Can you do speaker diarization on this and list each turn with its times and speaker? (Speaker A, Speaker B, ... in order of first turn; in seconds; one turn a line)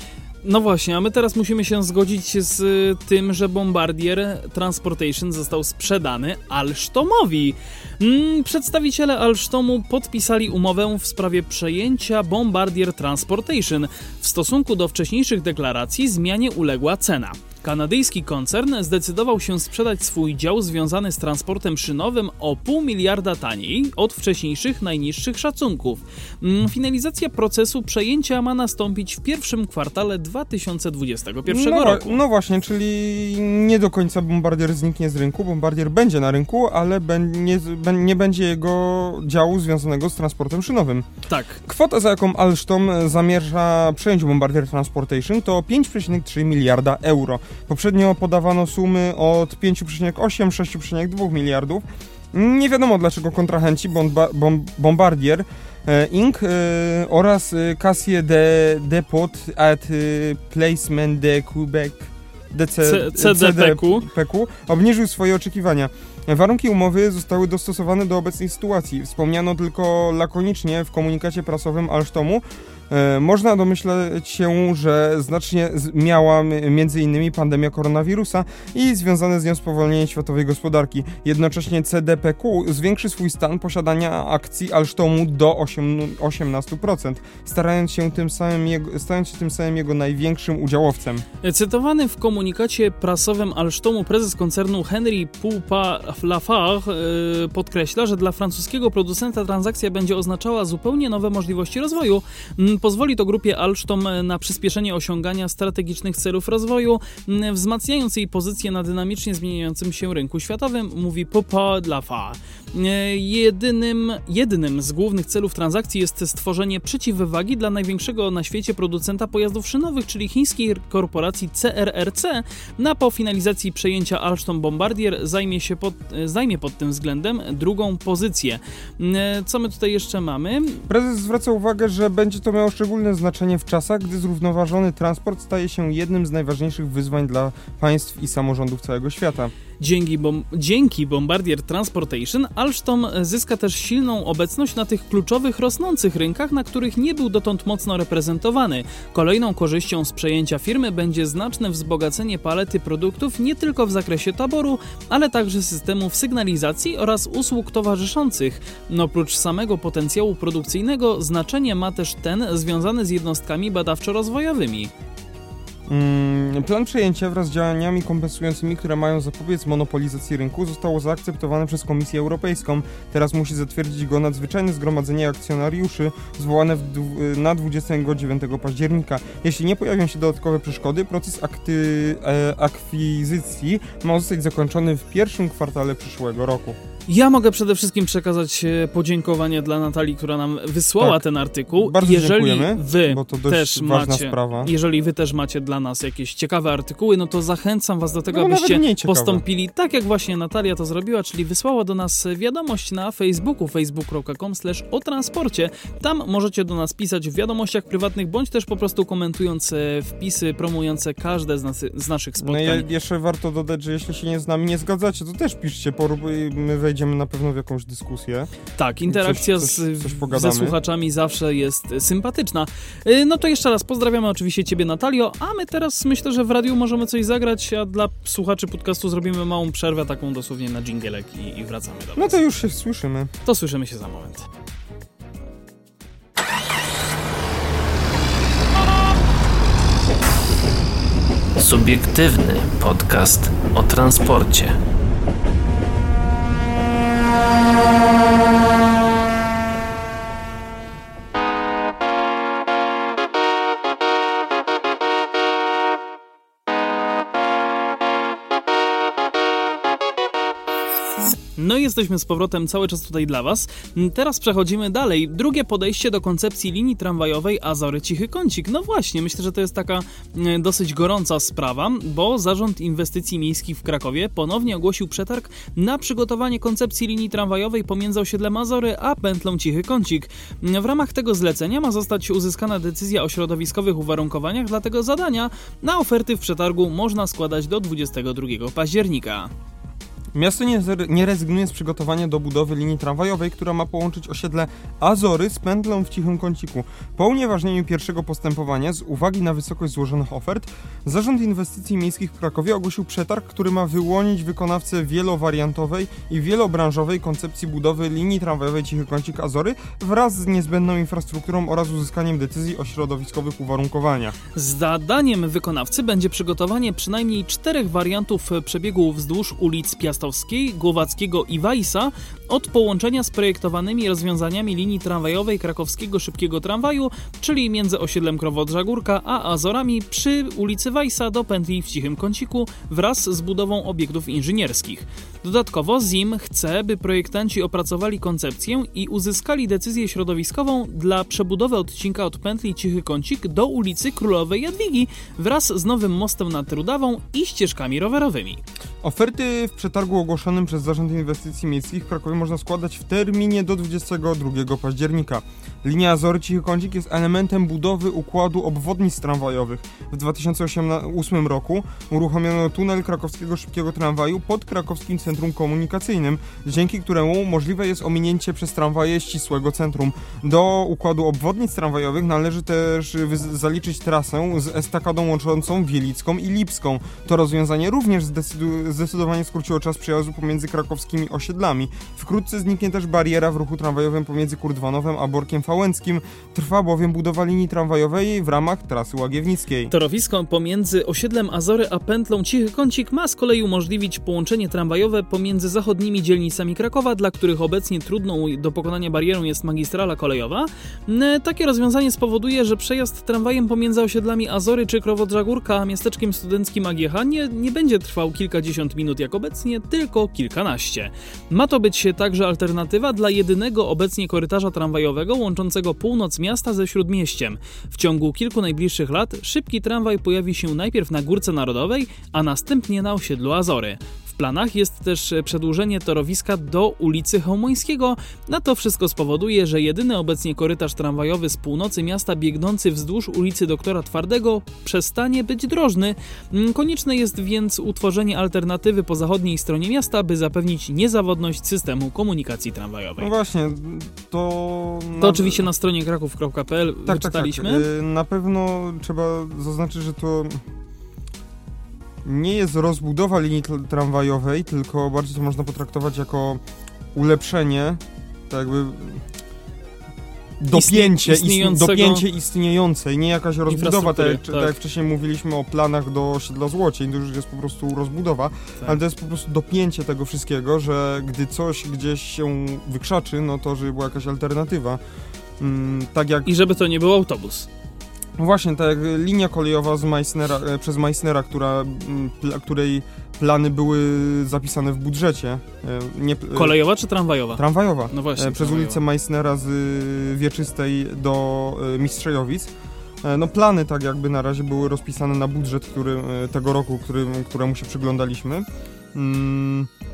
Speaker A: 0.4-32.2
Speaker B: 31.4-41.1
Speaker A: 41.3-41.6
Speaker B: 41.6-91.2
Speaker A: 62.8-64.1
Speaker A: 91.4-130.8
Speaker B: 130.9-139.5
Speaker A: 139.8-164.9
Speaker B: 165.9-186.8
Speaker A: 187.1-212.8
Speaker B: 191.0-194.7
Speaker B: 198.3-199.4
Speaker B: 212.4-218.5
Speaker A: 218.7-232.4
Speaker B: 219.1-220.8
Speaker B: 232.2-233.3
Speaker A: 233.4-234.4
Speaker C: 241.6-244.8
Speaker A: 261.6-289.5
Speaker B: 290.3-314.4
Speaker A: 314.5-348.6
Speaker B: 349.0-389.9
Speaker A: 389.9-443.3
Speaker B: 443.2-445.7
Speaker A: 445.2-447.9
Speaker B: 447.1-450.6
Speaker B: 452.2-456.6
Speaker B: 457.1-459.2
Speaker B: 460.6-475.0
Speaker A: 460.7-462.2
Speaker A: 463.7-464.7
Speaker B: 475.6-476.5
Speaker A: 476.4-477.7
Speaker B: 478.4-486.8
Speaker A: 486.5-489.0
Speaker B: 487.6-492.7
Speaker B: 493.2-499.9